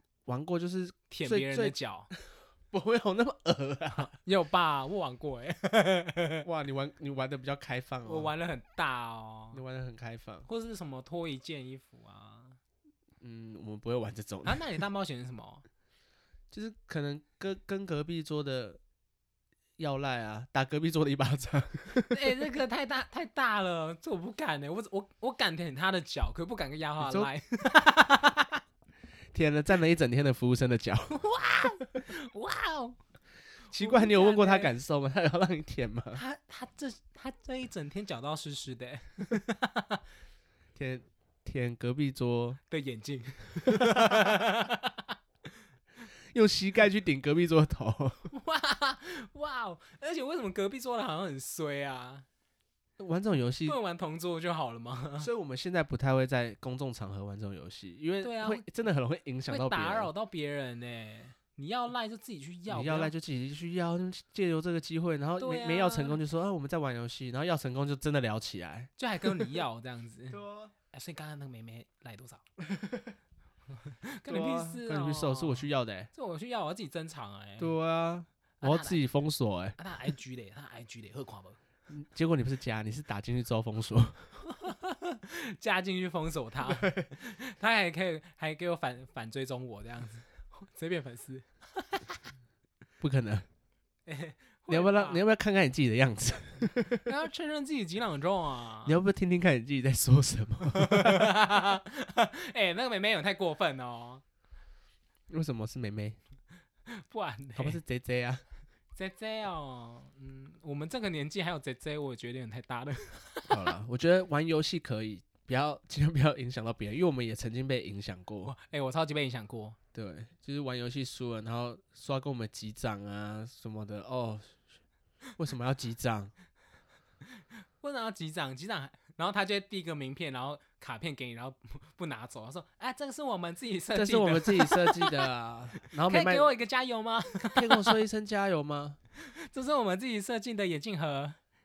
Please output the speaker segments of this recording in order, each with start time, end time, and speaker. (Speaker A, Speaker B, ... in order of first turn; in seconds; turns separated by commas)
Speaker A: 0.3-4.1, Speaker B: 1.1-2.1, Speaker B: 3.9-6.5, Speaker A: 6.4-8.3, Speaker B: 8.0-9.6, Speaker A: 9.5-10.5, Speaker B: 10.5-12.6, Speaker A: 13.2-14.6, Speaker B: 14.4-15.6, Speaker A: 16.5-18.8, Speaker A: 19.8-22.2, Speaker B: 22.1-28.6, Speaker A: 27.0-27.3, Speaker A: 29.3-31.2, Speaker B: 31.1-33.0, Speaker B: 33.7-34.7, Speaker A: 33.7-36.2, Speaker B: 36.1-40.0, Speaker A: 40.7-42.6, Speaker B: 42.7-45.1, Speaker A: 43.7-44.4, Speaker A: 46.3-48.3, Speaker B: 48.3-52.2, Speaker A: 53.0-53.8, Speaker B: 53.6-55.3, Speaker A: 55.2-60.1, Speaker B: 58.2-58.6, Speaker B: 59.5-63.1, Speaker A: 62.7-69.5, Speaker B: 65.4-66.2, Speaker B: 69.0-72.4, Speaker A: 70.3-70.7, Speaker A: 72.7-73.1, Speaker B: 73.8-77.7, Speaker A: 74.3-76.1, Speaker A: 77.6-79.8, Speaker B: 78.6-79.0, Speaker B: 79.8-81.6, Speaker A: 81.9-84.2, Speaker B: 84.5-92.2, Speaker A: 86.6-87.1, Speaker A: 93.0-93.5, Speaker B: 94.0-95.2, Speaker A: 94.7-97.0, Speaker B: 97.0-99.0, Speaker A: 98.8-101.3, Speaker B: 100.7-104.2, Speaker A: 105.3-106.2, Speaker B: 106.9-107.8, Speaker A: 107.5-108.4, Speaker B: 109.0-113.6, Speaker A: 113.5-118.5, Speaker B: 118.5-119.8, Speaker A: 119.9-124.6, Speaker A: 125.4-126.3, Speaker B: 127.8-135.3, Speaker A: 133.9-136.5, Speaker B: 135.8-138.0, Speaker A: 137.5-139.0, Speaker B: 139.2-141.4